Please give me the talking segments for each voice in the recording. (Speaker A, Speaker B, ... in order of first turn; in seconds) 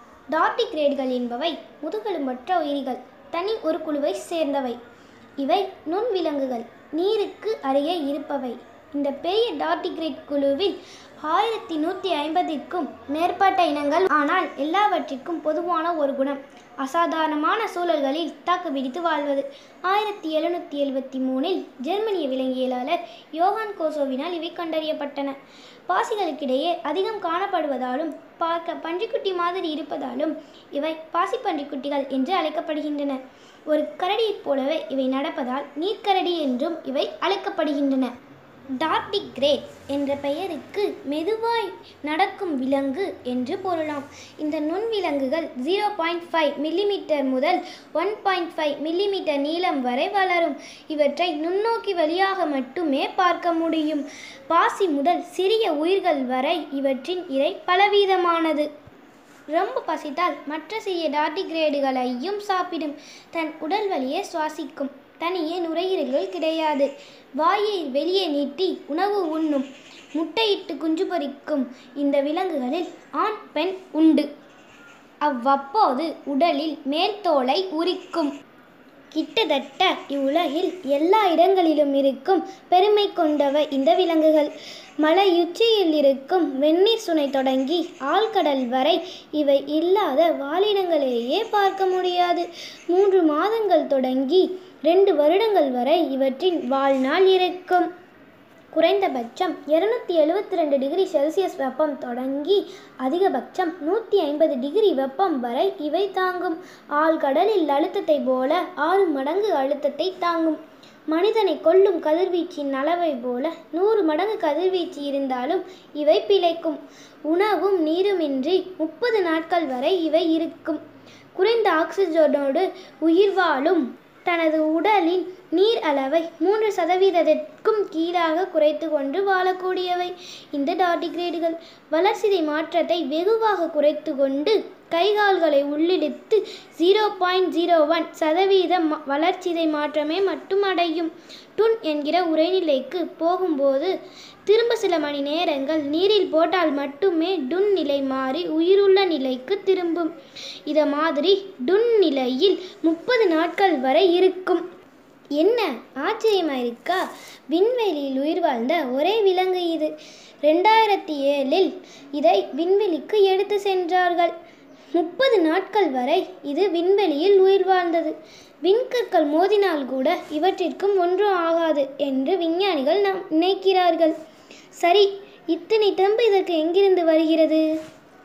Speaker A: 0.3-4.8, 5.4-38.1, 38.8-58.7, 59.5-74.3, 75.2-78.3, 79.1-97.9, 98.7-120.8, 121.3-143.9, 144.5-150.1, 150.7-154.6, 155.4-164.3, 164.9-174.2, 174.8-177.7